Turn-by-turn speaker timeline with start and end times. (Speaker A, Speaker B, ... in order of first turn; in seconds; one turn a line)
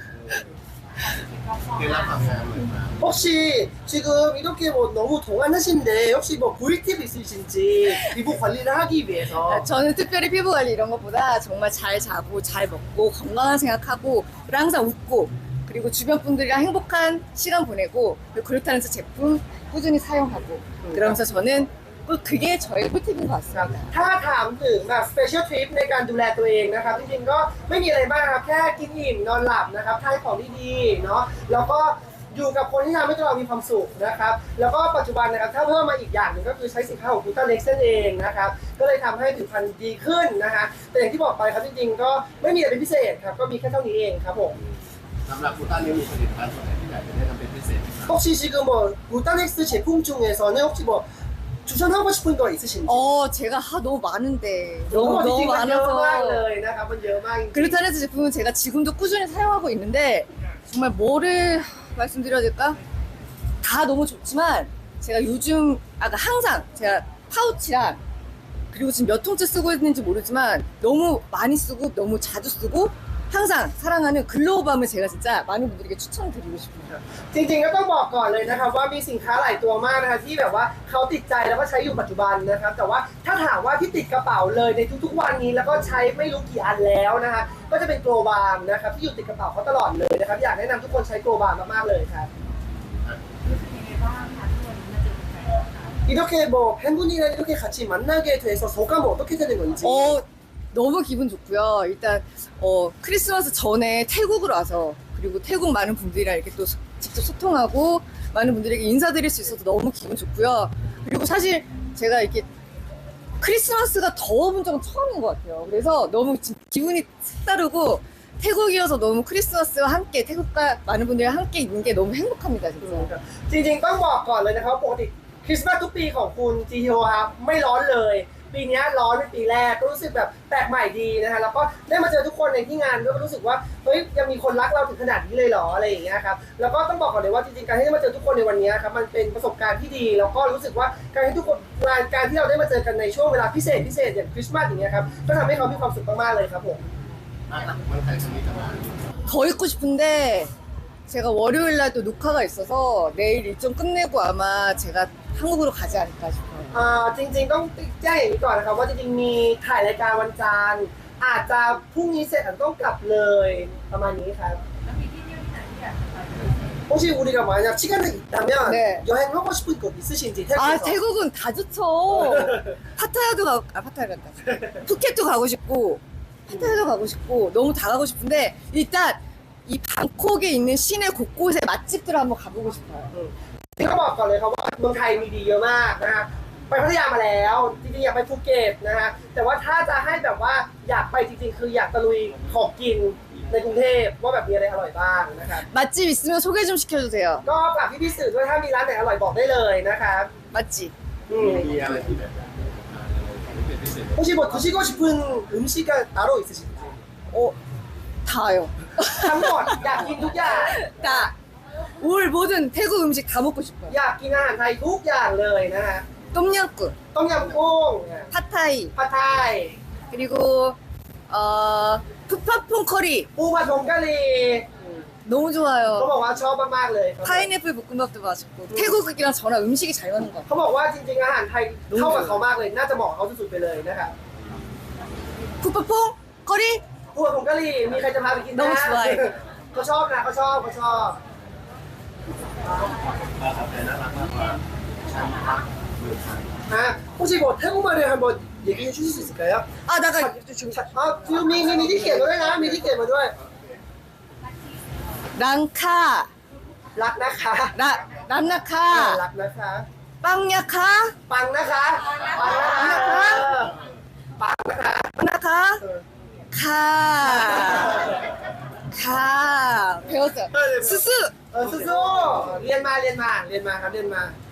Speaker A: 1.6-3.0
Speaker B: 3.0-9.7
Speaker C: 9.4-23.9
Speaker B: 20.8-21.2
Speaker B: 23.5-44.6
Speaker A: 45.2-48.1
Speaker B: 48.1-51.0
Speaker B: 51.6-53.2
Speaker C: 52.9-56.5
Speaker B: 54.9-57.8
Speaker C: 57.5-62.8
Speaker C: 63.6-68.0
Speaker C: 68.7-77.0
Speaker B: 76.9-92.3
Speaker A: 93.1-95.5
Speaker B: 96.0-100.2
Speaker C: 99.8-112.5
Speaker C: 113.4-123.1
Speaker B: 122.8-146.8
Speaker A: 147.5-149.2
Speaker C: 149.2-150.5
Speaker C: 151.1-156.8
Speaker B: 156.7-164.6
Speaker B: 166.9-171.0
Speaker C: 168.6-169.1
Speaker C: 170.5-183.1
Speaker B: 172.2-172.6
Speaker B: 183.1-195.6
Speaker C: 195.6-197.4
Speaker B: 197.4-200.3
Speaker C: 200.5-200.9
Speaker B: 201.3-201.7
Speaker A: 201.4-204.2
Speaker B: 204.1-206.9
Speaker C: 207.3-207.6
Speaker C: 208.2-211.3
Speaker B: 209.1-211.3
Speaker C: 212.0-213.9
Speaker B: 213.9-216.1
Speaker C: 216.3-217.0
Speaker B: 217.1-218.3
Speaker C: 218.3-218.9
Speaker B: 218.9-219.8
Speaker C: 220.1-220.8
Speaker C: 221.3-223.3
Speaker B: 223.4-225.0
Speaker C: 225.2-226.1
Speaker B: 225.9-227.5
Speaker C: 227.2-230.5
Speaker B: 228.7-229.0
Speaker B: 230.5-234.1
Speaker C: 231.9-232.4
Speaker C: 235.6-236.8
Speaker B: 237.1-241.2
Speaker C: 238.5-239.3
Speaker B: 242.7-242.9
Speaker A: 243.3-246.6
Speaker B: 246.7-253.3
Speaker C: 249.8-252.6
Speaker C: 255.3-256.3
Speaker B: 256.9-257.8
Speaker C: 257.7-259.2
Speaker B: 258.9-259.9
Speaker C: 260.2-261.2
Speaker B: 261.3-263.7
Speaker C: 262.4-263.5
Speaker B: 264.4-265.1
Speaker C: 265.1-265.8
Speaker C: 266.5-268.0
Speaker B: 267.2-268.2
Speaker C: 268.9-271.4
Speaker B: 270.5-271.0
Speaker B: 271.5-274.4